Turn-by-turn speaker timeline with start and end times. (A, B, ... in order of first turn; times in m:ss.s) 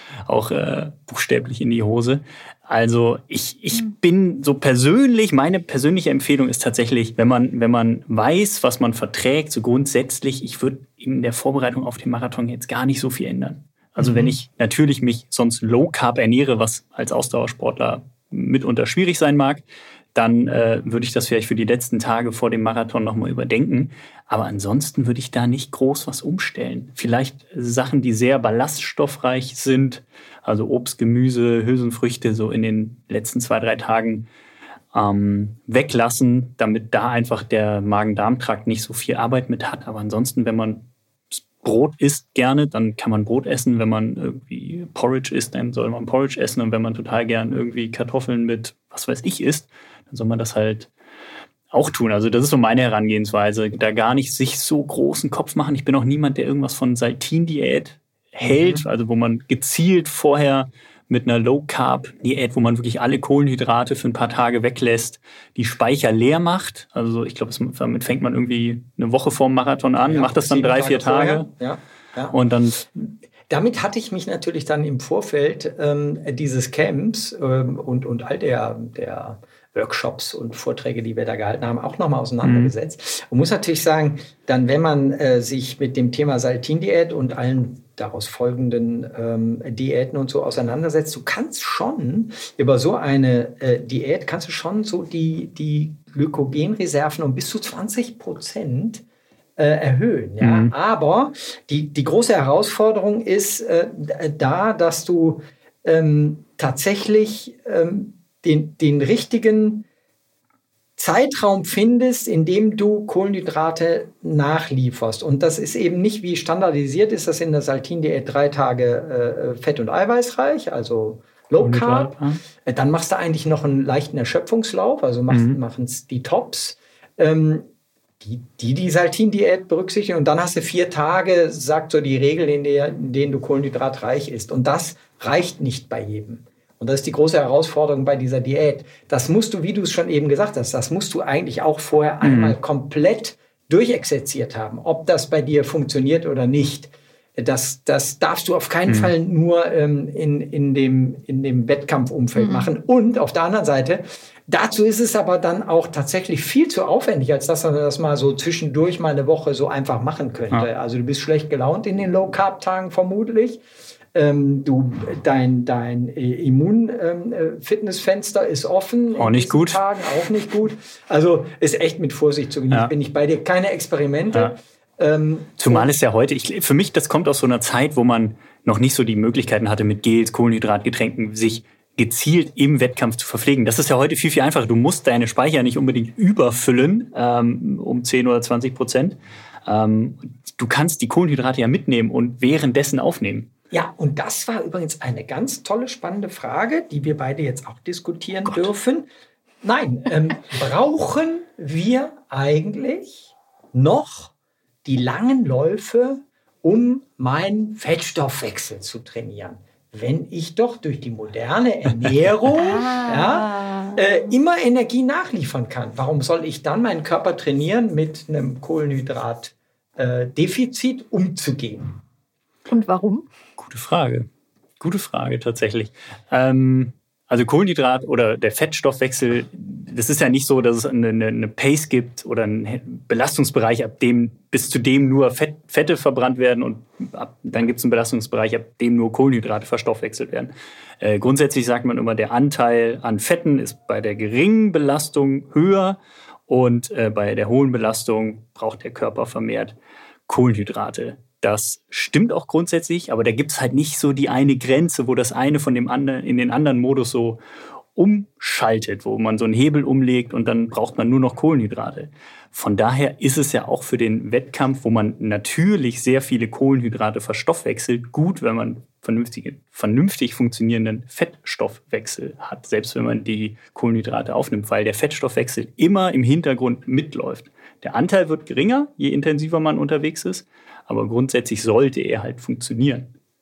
0:00.2-0:19.6 A
0:14.0-0:14.3 B
0:20.1-0:34.3 A
0:34.9-0:50.9 A
0:51.7-1:11.5 A
0:58.4-0:58.8 B
1:10.0-1:12.4 B
1:12.3-1:12.9 A
1:13.5-1:39.0 B
1:22.4-1:22.7 A
1:39.6-1:49.8 B
1:40.4-1:40.7 A
1:51.0-2:07.7 B
2:01.6-2:02.4 A
2:05.3-2:05.6 A
2:08.2-2:43.6 B
2:22.2-2:22.6 A
2:28.9-2:29.1 A
2:32.4-2:32.7 C
2:44.1-2:55.9 B
2:49.2-2:49.8 A
2:55.6-3:13.5 A
3:13.7-3:19.0 B
3:19.6-3:24.3 B
3:24.8-3:42.0 B
3:32.5-3:34.0 C
3:42.7-3:43.2 C
3:43.6-3:44.3 A
3:44.8-4:09.8 A
4:10.3-4:17.4 A
4:18.0-4:43.1 A